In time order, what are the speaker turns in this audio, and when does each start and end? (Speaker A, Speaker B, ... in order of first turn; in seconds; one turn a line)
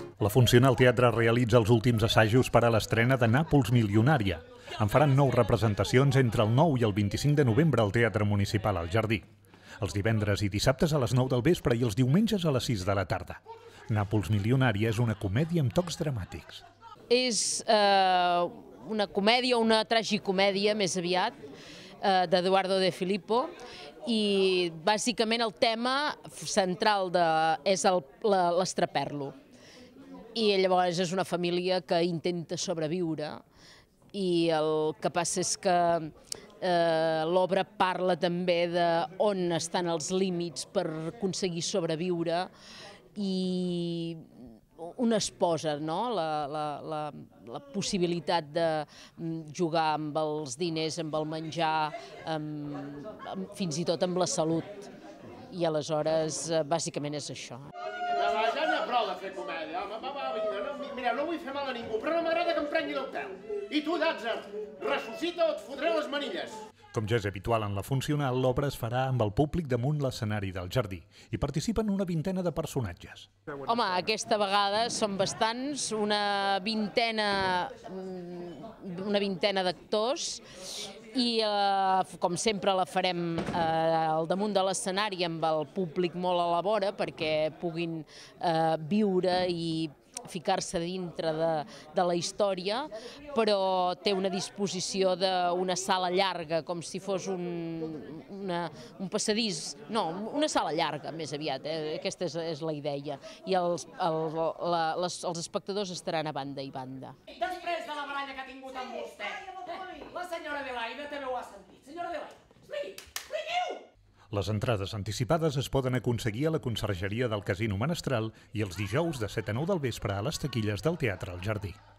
Speaker A: 0.2-9.3
Speaker A: 9.8-16.6
Speaker B: 17.1-21.4
Speaker B: 22.0-23.5
Speaker B: 24.0-29.4
Speaker B: 30.4-33.4
Speaker B: 34.1-42.5
Speaker B: 43.2-54.9
Speaker B: 55.5-57.7
Speaker C: 58.1-66.6
Speaker A: 66.9-73.3
Speaker B: 73.6-107.4
Speaker D: 107.4-112.4
Speaker A: 114.3-121.8